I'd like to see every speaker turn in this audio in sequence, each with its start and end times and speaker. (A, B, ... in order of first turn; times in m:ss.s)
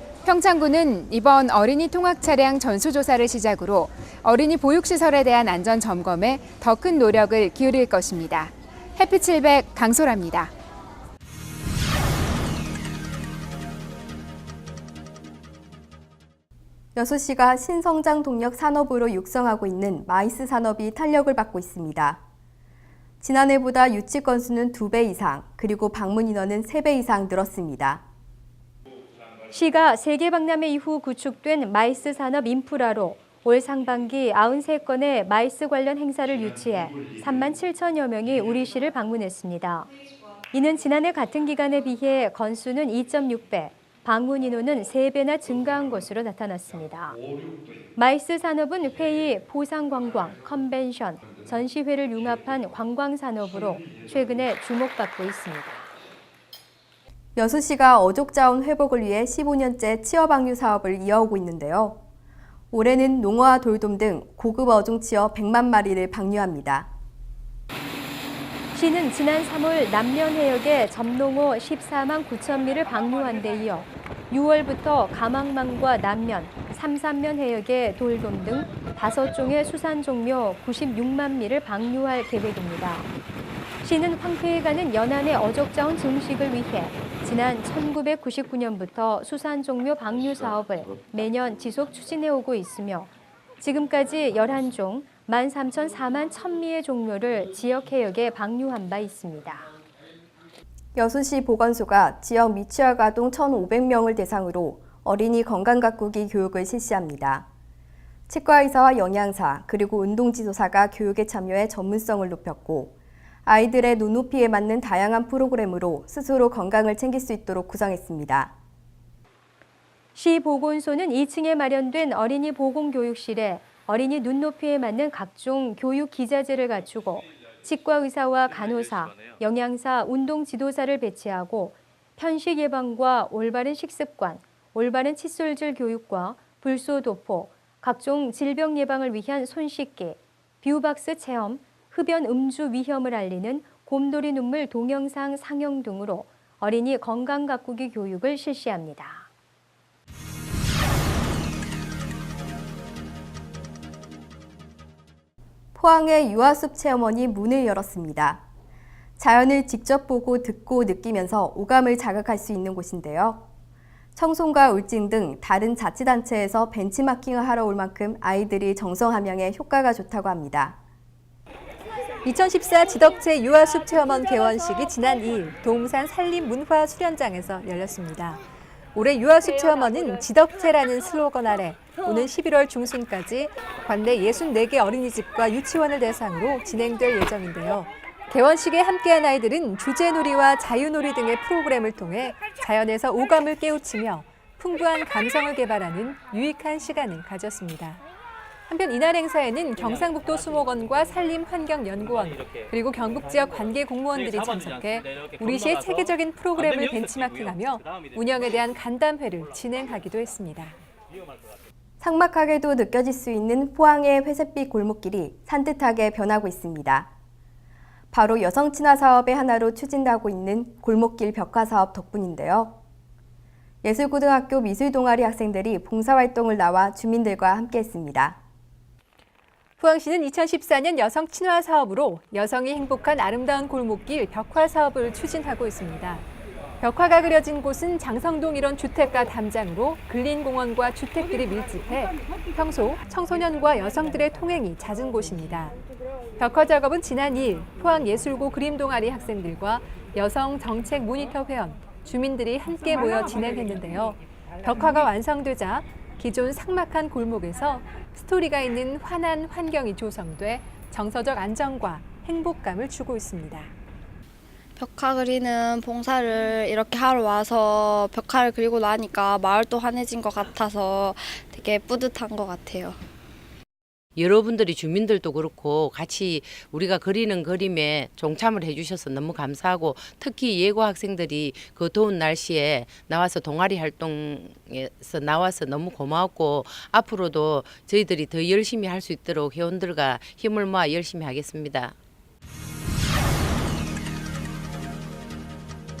0:00.2-0:10.5 A
0:16.9-0:22.2 B
0:23.2-0:28.0 B
0:29.5-0:39.9 C
0:40.5-0:47.2 C
0:48.0-0:55.9 C
0:57.4-1:02.0 B
1:02.7-1:06.9 B
1:08.7-1:23.1 C
1:23.8-1:39.7 C
1:40.9-1:47.4 B
1:48.3-1:52.9 B
1:53.4-1:58.5 B
2:00.1-2:29.2 C
2:35.7-2:38.4 B
2:39.2-2:43.4 B
2:44.1-2:50.8 B
2:52.2-2:58.4 D
2:58.9-3:18.0 D
3:18.7-3:30.8 D
3:32.0-3:37.1 B
3:38.1-3:42.8 B
3:43.8-3:48.4 B
3:49.8-3:56.2 D
3:56.8-4:05.8 D
4:06.4-4:23.7 D
4:24.8-4:33.0 E
4:34.2-4:51.9 F